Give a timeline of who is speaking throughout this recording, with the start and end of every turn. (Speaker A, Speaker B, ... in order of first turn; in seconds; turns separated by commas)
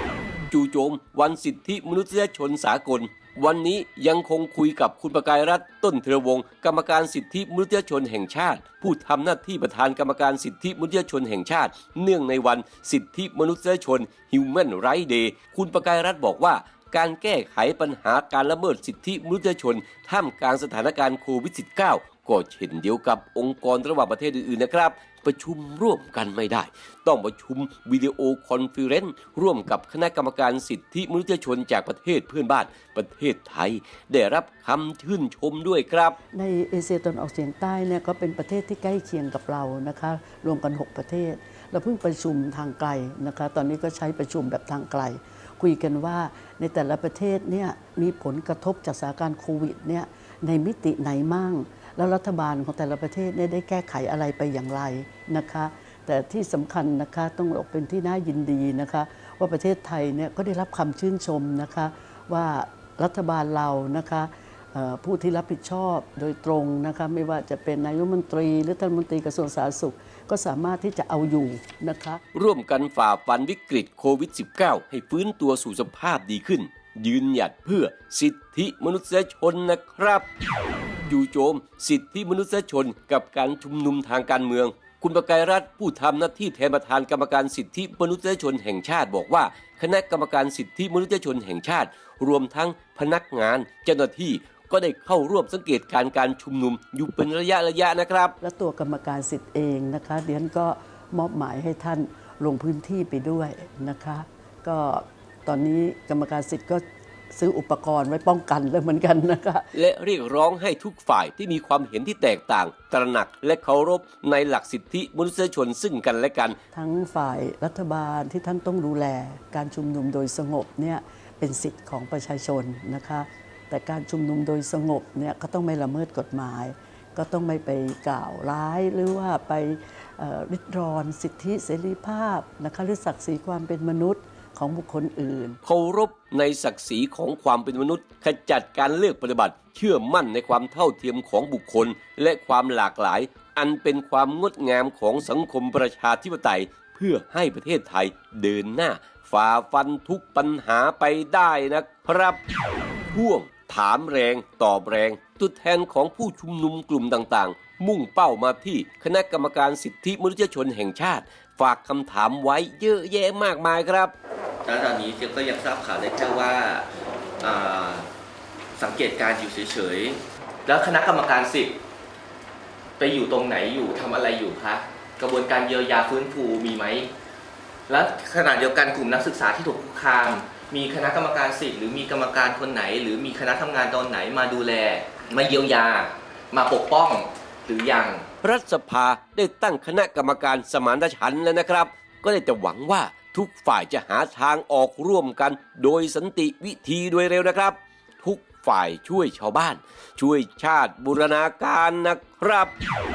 Speaker A: 0.5-36.2, Speaker B: 36.3-72.2, Speaker A: 72.3-80.3, Speaker A: 81.1-98.4, Speaker B: 98.4-109.7, Speaker A: 109.7-116.6, Speaker B: 116.7-135.6, Speaker A: 135.6-152.4, Speaker A: 153.1-164.1, Speaker C: 164.7-166.9, Speaker C: 167.4-168.1, Speaker C: 168.8-171.8, Speaker C: 173.0-177.1, Speaker C: 177.9-188.3, Speaker A: 188.4-202.7